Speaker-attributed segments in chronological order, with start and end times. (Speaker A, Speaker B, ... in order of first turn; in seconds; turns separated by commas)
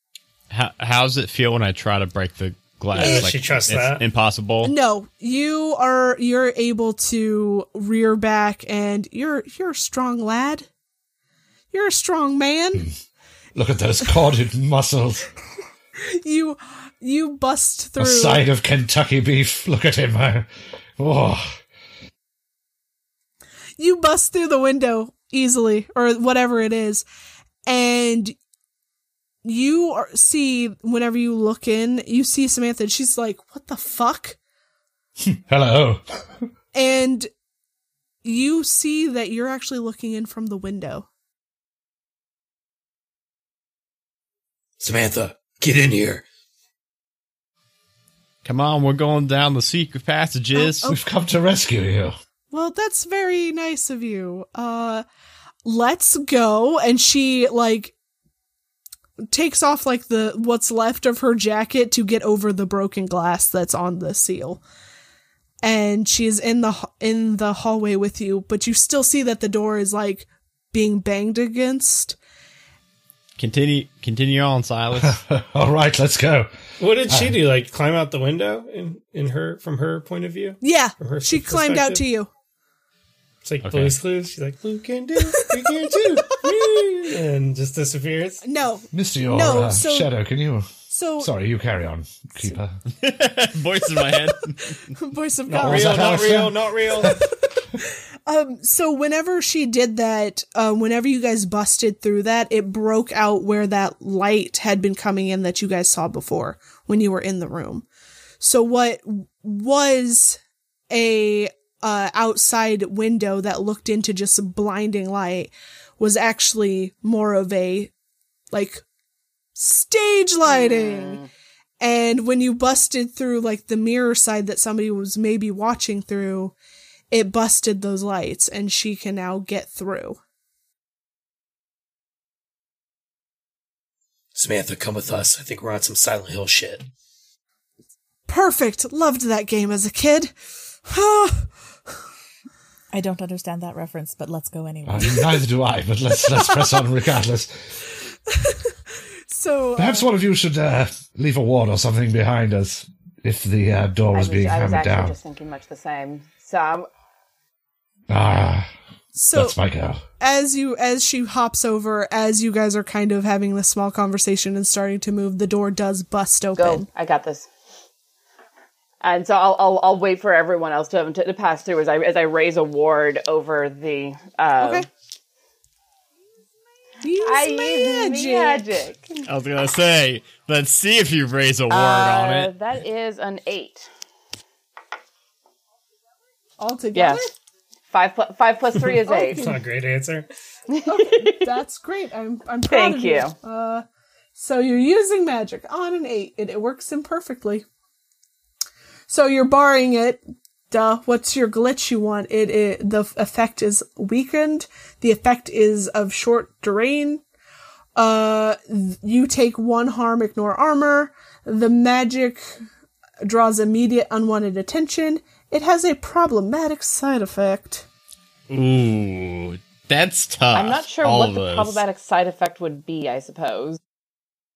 Speaker A: 0.5-4.7, Speaker B: 2.9-4.0, Speaker C: 3.0-3.3, Speaker C: 4.6-10.7, Speaker C: 11.7-12.9, Speaker D: 13.6-15.3, Speaker C: 16.0-18.4, Speaker D: 18.0-20.5, Speaker D: 21.0-21.6, Speaker C: 23.8-27.1, Speaker C: 27.7-28.4, Speaker C: 29.4-34.4, Speaker D: 35.3-36.0, Speaker C: 36.7-37.3, Speaker C: 38.2-41.1, Speaker B: 44.8-46.2, Speaker A: 48.4-50.9, Speaker C: 50.5-51.0, Speaker D: 50.9-52.1, Speaker C: 52.5-55.0, Speaker C: 55.6-58.0, Speaker C: 59.3-64.6, Speaker C: 65.6-72.2, Speaker A: 73.4-75.2, Speaker D: 75.0-77.4, Speaker B: 76.8-82.0, Speaker C: 80.6-82.3, Speaker B: 83.4-88.4, Speaker A: 83.6-84.0, Speaker C: 85.2-85.5, Speaker C: 88.4-90.1, Speaker D: 88.9-92.8, Speaker C: 90.9-91.3, Speaker A: 92.9-94.8, Speaker C: 94.3-96.4, Speaker B: 95.5-97.2, Speaker D: 95.6-97.2, Speaker C: 97.0-107.9, Speaker C: 108.4-110.4, Speaker C: 110.9-117.9, Speaker C: 118.5-118.8, Speaker C: 119.5-121.2, Speaker E: 120.5-121.3, Speaker C: 121.8-126.5, Speaker C: 127.1-130.2, Speaker B: 134.3-136.9, Speaker C: 138.3-140.3, Speaker C: 140.9-141.5, Speaker F: 142.9-145.4, Speaker D: 144.9-147.5, Speaker C: 146.4-146.8, Speaker C: 148.3-148.8, Speaker C: 149.3-150.1, Speaker D: 149.8-155.2, Speaker E: 154.1-156.9, Speaker D: 158.1-158.7, Speaker C: 159.1-159.6, Speaker D: 159.3-160.0, Speaker C: 160.2-166.9, Speaker E: 166.6-167.5, Speaker E: 169.0-174.9, Speaker C: 174.6-174.9, Speaker C: 177.0-178.8, Speaker E: 177.2-179.3, Speaker A: 179.3-182.5, Speaker E: 181.7-183.9, Speaker C: 186.6-187.3, Speaker E: 186.9-187.2, Speaker E: 187.9-189.5, Speaker B: 188.8-190.3, Speaker C: 189.1-189.6, Speaker E: 190.7-191.6, Speaker C: 190.8-193.8, Speaker E: 192.7-193.4, Speaker C: 194.3-197.7, Speaker C: 199.1-207.2, Speaker C: 208.0-212.5, Speaker C: 213.2-217.8, Speaker A: 218.5-221.8, Speaker E: 220.5-223.8